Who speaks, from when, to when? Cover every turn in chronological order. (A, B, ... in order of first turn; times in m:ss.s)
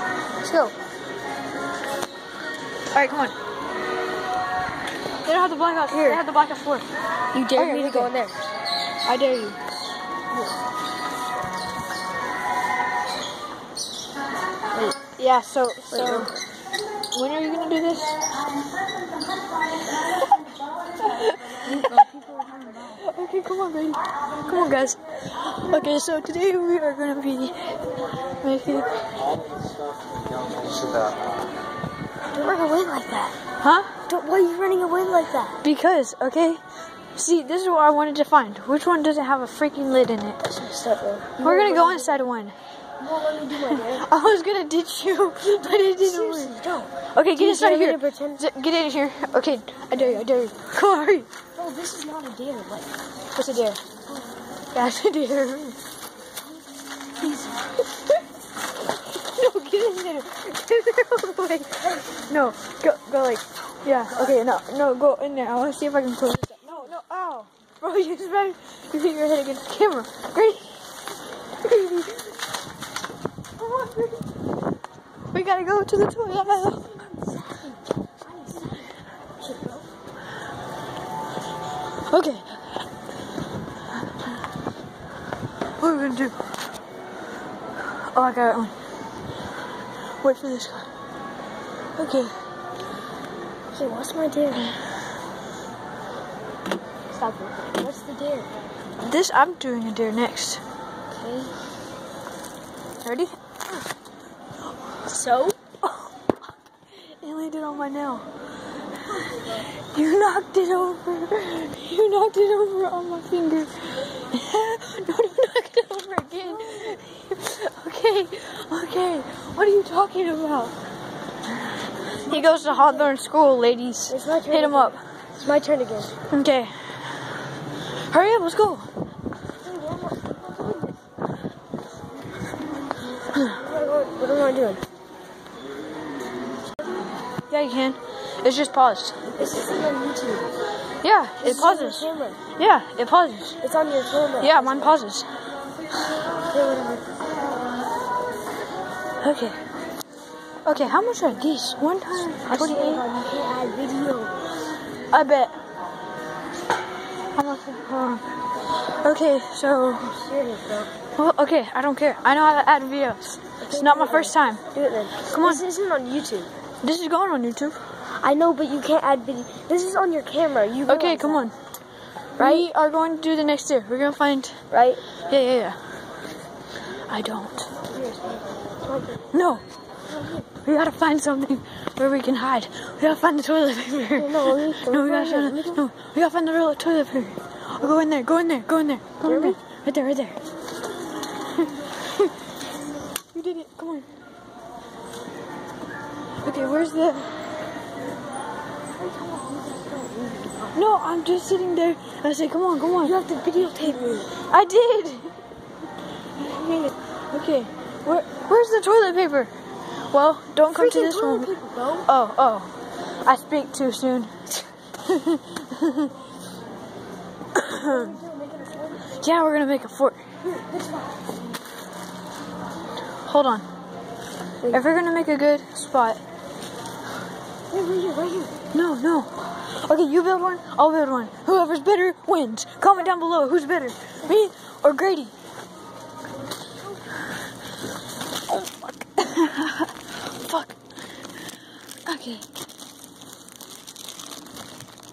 0:00.4-0:00.7 A
0:02.9-0:03.3 B
0:05.2-0:06.9 B
0:05.9-0:06.2 A
0:07.3-0:08.4 A
0:07.5-0:08.1 B
0:09.0-0:09.6 B
0:15.1-0:16.4 B
0:15.9-0:16.3 A
0:17.1-0:18.2 B
0:21.0-0:27.8 B
0:28.4-0:28.9 B
0:32.3-0:33.4 A
0:33.6-0:33.9 B
0:34.1-0:35.6 A
0:35.6-0:36.6 B
0:37.2-0:40.6 B
0:40.6-0:42.2 A
0:41.4-0:42.5 B
0:43.0-0:44.1 A
0:43.6-0:46.5 B
0:45.9-0:48.4 A
0:47.1-0:51.3 B
0:51.6-0:52.9 A
0:53.3-0:53.8 B
0:54.7-0:55.8 B
0:57.2-0:57.5 B
0:59.1-1:10.8 B
1:11.6-1:12.2 B
1:13.6-1:14.2 B
1:15.3-1:16.9 B
1:16.9-1:17.8 A
1:18.4-1:18.8 A
1:19.4-1:19.8 A
1:22.1-1:22.6 B
1:25.8-1:26.4 B
1:28.1-1:28.7 B
1:30.2-1:30.9 B
1:32.0-1:32.3 B
1:33.7-1:34.7 A
1:37.1-1:38.5 A
1:39.0-1:40.6 B
1:41.2-1:41.5 A
1:43.0-1:43.3 B
1:45.1-1:45.5 A
1:47.2-1:48.2 B
1:49.2-2:00.7 B
2:02.2-2:05.0 B
2:02.3-2:03.1 A
2:04.1-2:06.1 A
2:06.3-2:07.0 B
2:08.1-2:08.9 B
2:09.6-2:10.9 A
2:13.4-2:14.8 A
2:17.5-2:19.2 B
2:19.3-2:20.5 A
2:21.0-2:23.6 B
2:21.4-2:22.4 A
2:23.6-2:25.0 A
2:24.4-2:25.3 B
2:26.5-2:27.0 A
2:29.2-2:29.6 B
2:30.6-2:33.1 B
2:32.4-2:34.4 A
2:35.1-2:35.5 B
2:37.3-2:40.2 B
2:40.2-2:40.9 A
2:41.1-2:44.6 B
2:43.6-2:46.5 A
2:45.2-2:45.6 B
2:46.8-2:47.8 B
2:48.2-2:51.5 A
2:50.9-2:51.5 B
2:52.4-2:54.6 B
2:52.4-2:52.6 A
2:54.7-2:55.0 A
2:55.3-2:55.8 B
2:57.1-2:57.7 B
2:57.9-2:59.2 A
2:59.3-2:59.6 B
3:00.6-3:10.4 B
3:04.2-3:05.8 A
3:09.2-3:09.6 A
3:11.6-3:12.3 B
3:13.3-3:14.1 B
3:16.4-3:17.3 B
3:19.0-3:20.8 A
3:20.7-3:23.1 B
3:23.0-3:24.4 A
3:24.5-3:25.4 B
3:26.4-3:29.5 B
3:30.1-3:31.5 B
3:30.7-3:32.1 A
3:32.0-3:36.1 B
3:37.5-3:38.1 B
3:37.7-3:39.2 A
3:39.1-3:40.2 B
3:40.5-3:41.1 A
3:43.2-3:43.6 B
3:44.7-3:46.2 B
3:47.7-3:48.6 A
3:48.7-3:55.3 B
3:58.5-4:00.7 B
4:02.0-4:02.4 B